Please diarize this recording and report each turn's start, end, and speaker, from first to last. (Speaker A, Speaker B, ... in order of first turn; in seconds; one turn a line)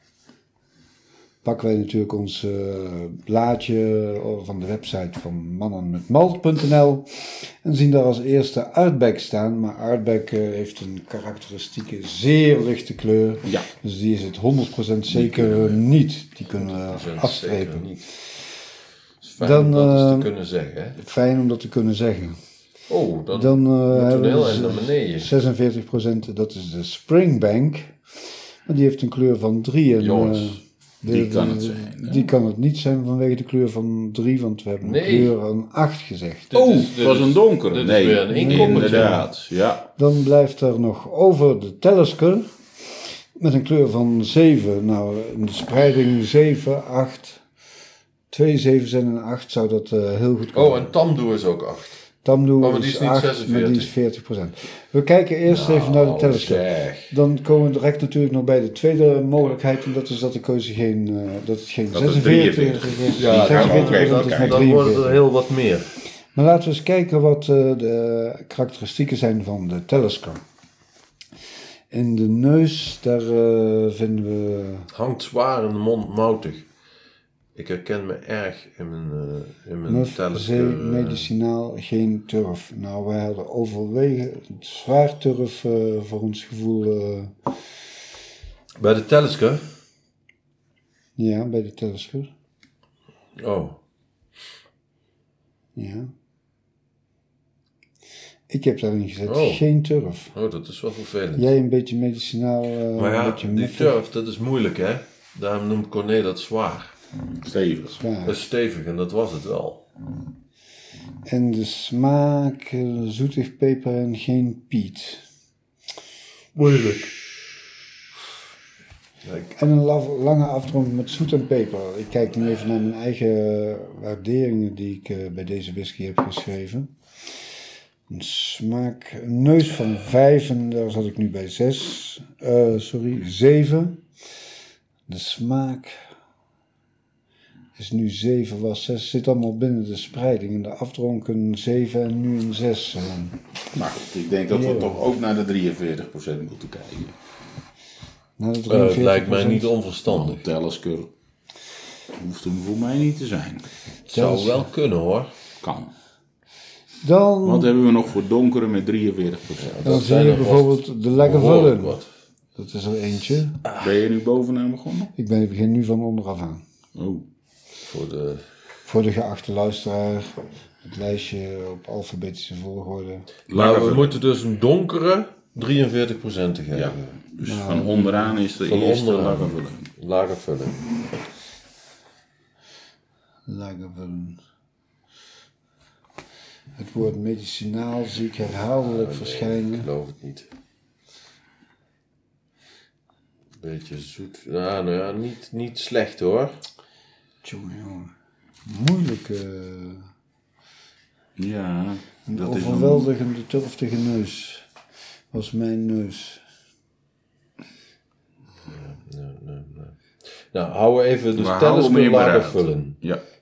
Speaker A: 1.4-18.1
Speaker B: 15.1-15.8
Speaker C: 16.5-18.1
Speaker C: 19.2-21.0
Speaker A: 19.4-20.3
Speaker A: 21.0-22.4
Speaker C: 22.9-25.3
Speaker A: 23.3-36.6
Speaker C: 30.0-30.6
Speaker B: 31.0-32.3
Speaker C: 34.8-35.4
Speaker C: 36.5-39.3
Speaker B: 36.5-39.9
Speaker A: 38.3-39.3
Speaker A: 40.0-42.5
Speaker A: 43.4-47.4
Speaker A: 48.3-50.9
Speaker C: 50.5-52.0
Speaker A: 52.2-65.2
Speaker C: 52.6-53.9
Speaker B: 55.5-57.1
Speaker B: 61.9-64.7
Speaker C: 63.2-65.9
Speaker A: 66.3-70.4
Speaker A: 71.9-74.9
Speaker C: 74.9-76.7
Speaker C: 77.5-81.3
Speaker A: 79.9-87.5
Speaker C: 88.8-89.7
Speaker A: 91.2-92.3
Speaker C: 93.4-93.8
Speaker A: 95.8-96.1
Speaker A: 98.5-100.3
Speaker C: 99.3-99.6
Speaker C: 100.3-101.5
Speaker A: 101.4-104.0
Speaker C: 103.0-107.0
Speaker B: 107.4-108.0
Speaker A: 107.9-108.4
Speaker C: 108.2-109.8
Speaker A: 111.2-115.2
Speaker C: 116.5-117.2
Speaker C: 119.2-119.5
Speaker A: 119.5-126.9
Speaker A: 128.1-134.0
Speaker A: 135.1-136.0
Speaker A: 137.8-143.4
Speaker B: 143.7-147.2
Speaker A: 144.5-145.1
Speaker A: 148.4-149.7
Speaker C: 148.7-150.4
Speaker B: 150.1-151.1
Speaker B: 152.1-153.7
Speaker C: 154.1-155.3
Speaker A: 154.1-154.7
Speaker B: 155.6-155.9
Speaker A: 157.0-157.7
Speaker B: 157.4-160.1
Speaker C: 159.6-162.1
Speaker A: 159.8-162.0
Speaker A: 162.6-163.6
Speaker B: 163.8-165.1
Speaker A: 165.2-166.6
Speaker B: 166.9-167.2
Speaker C: 167.8-168.5
Speaker A: 168.8-173.3
Speaker B: 173.5-174.2
Speaker C: 173.5-177.2
Speaker B: 176.7-179.9
Speaker A: 177.4-178.4
Speaker C: 178.6-180.9
Speaker A: 183.5-184.4
Speaker A: 186.8-189.9
Speaker C: 188.8-190.5
Speaker C: 193.6-196.6
Speaker A: 197.4-198.1
Speaker A: 198.7-200.1
Speaker B: 201.4-203.1
Speaker A: 202.3-204.7
Speaker A: 205.3-206.4
Speaker C: 208.7-213.0
Speaker B: 211.4-213.2